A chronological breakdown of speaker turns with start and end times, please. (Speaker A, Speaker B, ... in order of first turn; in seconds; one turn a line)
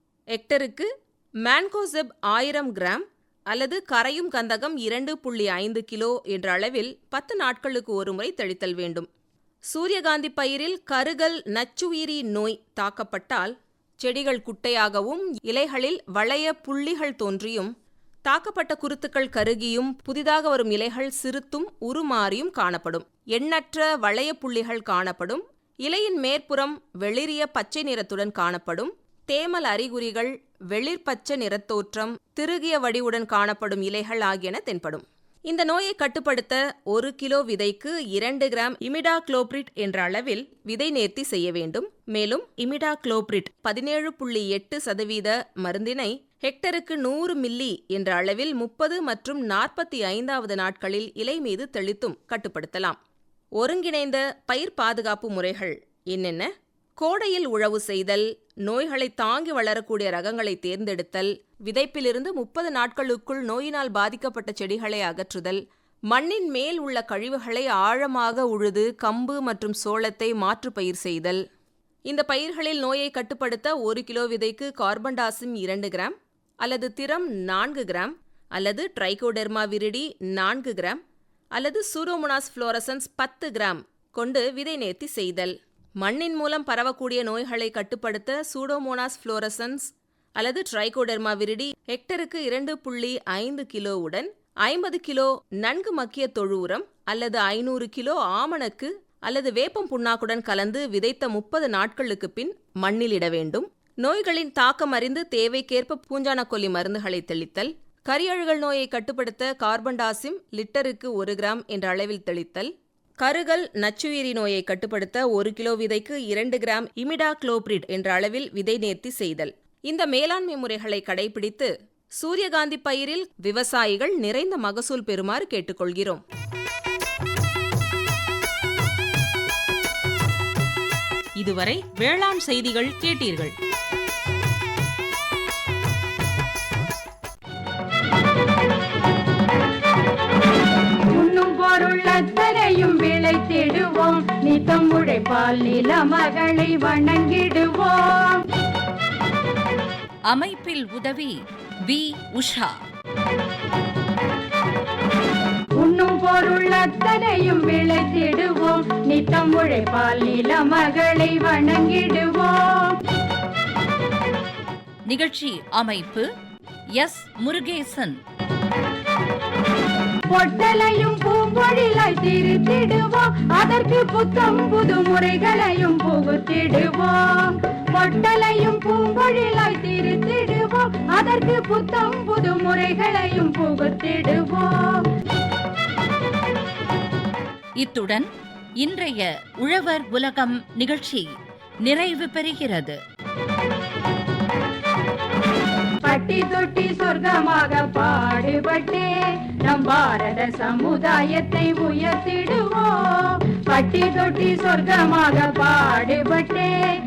Speaker A: 0.3-0.9
Speaker A: 1.4-9.1
Speaker A: 9.7-17.7
Speaker A: 18.3-53.0
Speaker A: 53.6-71.4
Speaker A: 72.1-81.0
Speaker A: 81.6-126.2
Speaker B: 131.4-133.5
Speaker C: 141.1-148.5
Speaker D: 150.3-152.8
Speaker C: 155.8-163.0
Speaker D: 165.1-166.3
Speaker D: 167.0-168.2
Speaker C: 170.3-185.1
Speaker D: 187.8-188.3
Speaker D: 188.8-191.3
Speaker D: 191.8-193.0
Speaker C: 196.0-199.1
Speaker C: 199.6-206.7